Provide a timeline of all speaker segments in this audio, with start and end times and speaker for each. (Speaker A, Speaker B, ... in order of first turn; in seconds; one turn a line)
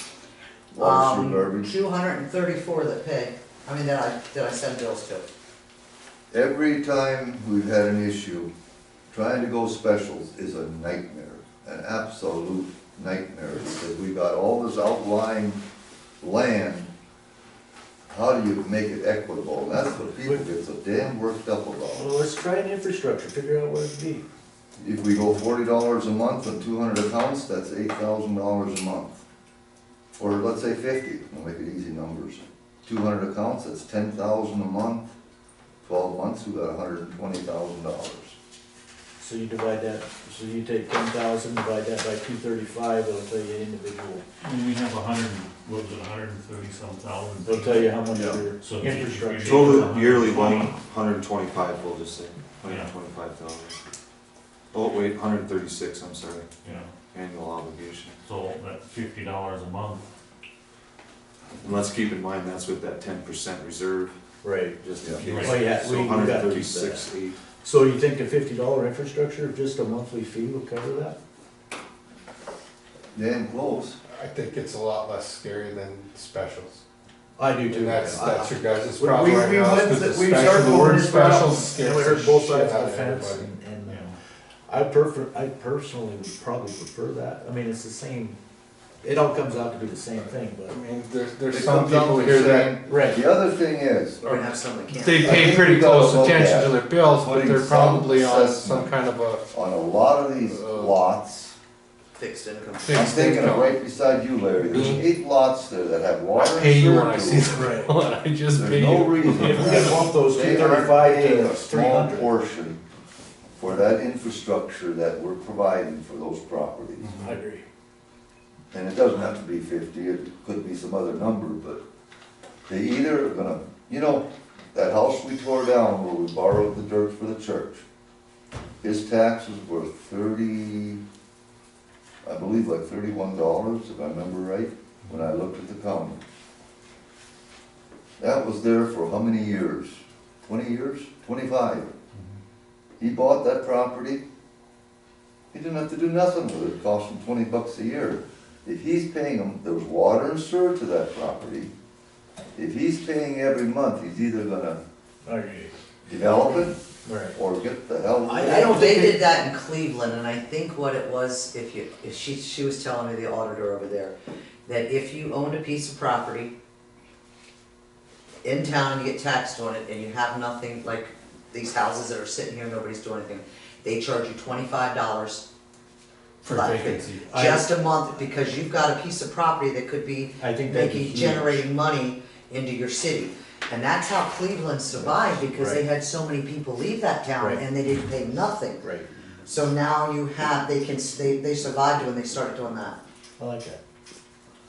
Speaker A: 0.7-1.7
Speaker B: 0.8-5.3
Speaker A: 6.3-8.5
Speaker A: 9.1-15.6
Speaker A: 16.2-16.9
Speaker A: 18.1-22.1
Speaker C: 19.9-20.4
Speaker C: 21.9-24.2
Speaker A: 24.8-29.2
Speaker A: 30.2-35.0
Speaker A: 35.8-38.4
Speaker C: 39.2-44.2
Speaker D: 44.4-50.8
Speaker C: 47.5-50.1
Speaker E: 49.5-53.8
Speaker D: 52.6-52.9
Speaker E: 54.7-56.5
Speaker D: 56.6-56.9
Speaker E: 57.1-58.1
Speaker D: 58.2-60.0
Speaker E: 61.6-64.1
Speaker C: 64.4-64.8
Speaker E: 64.8-67.4
Speaker D: 65.2-65.6
Speaker C: 65.3-67.1
Speaker C: 67.6-71.2
Speaker A: 73.1-74.0
Speaker F: 74.1-76.8
Speaker C: 77.4-84.2
Speaker F: 77.7-83.5
Speaker D: 83.9-84.1
Speaker C: 84.7-88.4
Speaker C: 89.0-90.8
Speaker F: 90.6-92.8
Speaker A: 91.5-94.3
Speaker C: 92.9-93.2
Speaker B: 94.2-95.4
Speaker F: 95.0-99.4
Speaker A: 95.2-99.0
Speaker A: 99.5-101.5
Speaker F: 100.5-100.9
Speaker B: 102.2-103.0
Speaker F: 102.8-103.7
Speaker A: 102.9-107.6
Speaker F: 104.7-105.0
Speaker F: 106.4-109.7
Speaker C: 107.5-108.0
Speaker A: 108.5-112.8
Speaker C: 109.2-112.3
Speaker A: 113.6-117.2
Speaker C: 117.1-117.6
Speaker A: 118.7-121.8
Speaker A: 122.7-127.8
Speaker A: 128.8-131.0
Speaker A: 132.2-136.2
Speaker A: 138.2-141.9
Speaker A: 143.0-144.2
Speaker A: 145.5-151.7
Speaker A: 152.6-154.8
Speaker C: 155.2-155.7
Speaker A: 156.1-156.8
Speaker C: 157.1-157.3
Speaker A: 157.3-158.6
Speaker C: 158.2-159.2
Speaker B: 158.4-164.2
Speaker B: 164.7-166.5
Speaker B: 168.4-175.4
Speaker F: 176.4-177.2
Speaker B: 176.5-188.8
Speaker C: 177.2-178.1
Speaker C: 180.4-181.7
Speaker C: 185.3-185.8
Speaker C: 187.4-187.6
Speaker C: 188.8-189.1
Speaker B: 189.4-193.0
Speaker C: 193.4-193.8